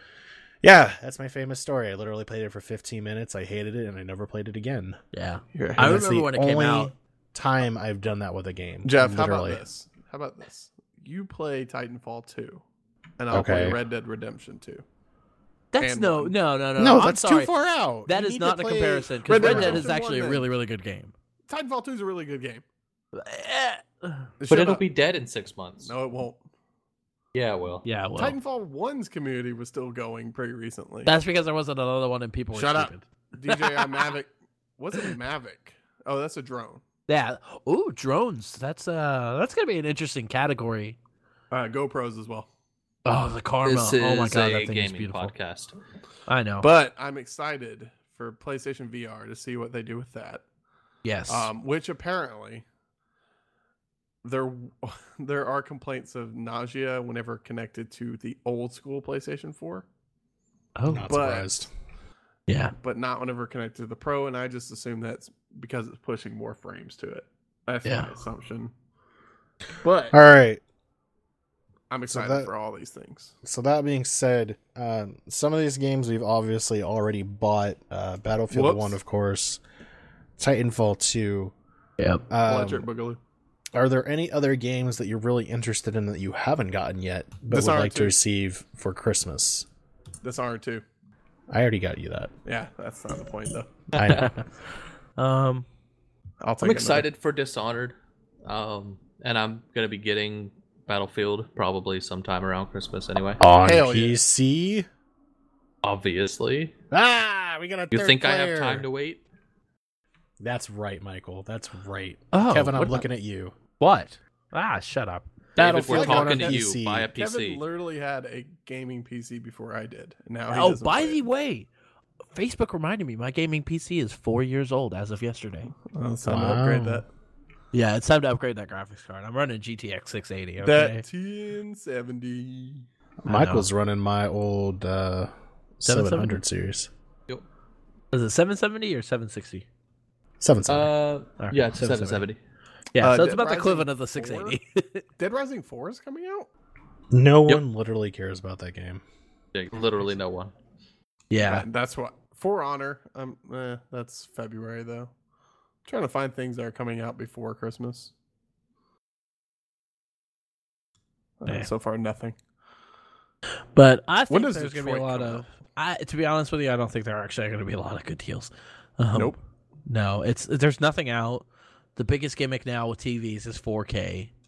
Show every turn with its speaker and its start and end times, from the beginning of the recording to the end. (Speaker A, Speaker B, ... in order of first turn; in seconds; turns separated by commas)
Speaker A: 0.6-5.0, Speaker B: 5.1-6.9, Speaker C: 5.5-6.1, Speaker A: 5.8-9.6, Speaker C: 8.8-12.6, Speaker C: 13.2-14.8, Speaker A: 13.3-13.8, Speaker B: 15.7-17.5, Speaker C: 15.8-16.4, Speaker A: 16.8-19.9, Speaker B: 18.1-21.1, Speaker C: 19.3-20.5, Speaker C: 21.5-22.6, Speaker B: 23.1-24.3, Speaker C: 24.4-24.8, Speaker D: 24.5-25.9, Speaker C: 25.8-26.4, Speaker D: 27.3-27.9, Speaker B: 27.8-28.4, Speaker C: 28.2-31.1, Speaker B: 31.0-34.0, Speaker C: 32.5-36.8, Speaker B: 37.1-41.0, Speaker C: 41.5-42.5, Speaker B: 43.0-45.3, Speaker D: 43.6-45.8, Speaker B: 46.3-46.7, Speaker C: 46.6-50.4, Speaker B: 51.0-51.5, Speaker C: 51.3-52.6, Speaker C: 54.2-59.9, Speaker B: 60.8-61.1, Speaker A: 60.9-61.7, Speaker C: 61.1-61.7, Speaker B: 62.5-62.7, Speaker C: 62.8-68.7, Speaker B: 67.8-68.1, Speaker C: 69.8-70.2, Speaker A: 70.1-70.6, Speaker C: 71.9-73.3, Speaker A: 72.1-72.5, Speaker A: 73.4-79.6, Speaker C: 78.5-79.0, Speaker A: 80.4-81.5, Speaker A: 82.3-82.8, Speaker C: 82.4-83.2, Speaker A: 83.7-89.7, Speaker C: 87.5-88.2, Speaker C: 90.2-90.8, Speaker A: 91.5-92.3, Speaker C: 92.5-93.7, Speaker A: 93.9-94.3, Speaker D: 94.0-94.3, Speaker B: 94.0-94.4, Speaker B: 95.2-95.7, Speaker C: 96.4-97.1, Speaker D: 96.6-103.4, Speaker A: 103.4-104.9, Speaker C: 103.6-104.2, Speaker D: 105.8-106.7, Speaker A: 106.9-108.8, Speaker D: 107.9-109.2, Speaker A: 110.4-113.5, Speaker B: 112.3-113.0, Speaker B: 113.8-116.5, Speaker D: 115.5-117.6, Speaker A: 115.6-117.1, Speaker C: 115.9-116.5, Speaker C: 117.1-121.2, Speaker B: 120.5-121.7, Speaker B: 122.3-125.7, Speaker C: 125.8-127.1, Speaker A: 126.2-127.0, Speaker B: 127.7-131.0, Speaker C: 130.6-132.8, Speaker A: 133.2-136.9, Speaker B: 133.3-133.7, Speaker B: 135.8-136.4, Speaker B: 138.1-139.6, Speaker A: 140.4-140.9, Speaker D: 140.7-142.4, Speaker B: 141.4-142.2, Speaker B: 142.9-145.0, Speaker C: 143.0-144.6, Speaker C: 145.2-146.5, Speaker A: 147.1-149.0, Speaker D: 149.5-150.5, Speaker B: 151.3-151.7, Speaker C: 151.4-155.1, Speaker C: 155.8-158.1, Speaker C: 161.4-162.4, Speaker B: 163.7-174.3, Speaker C: 164.3-165.5, Speaker C: 169.1-169.4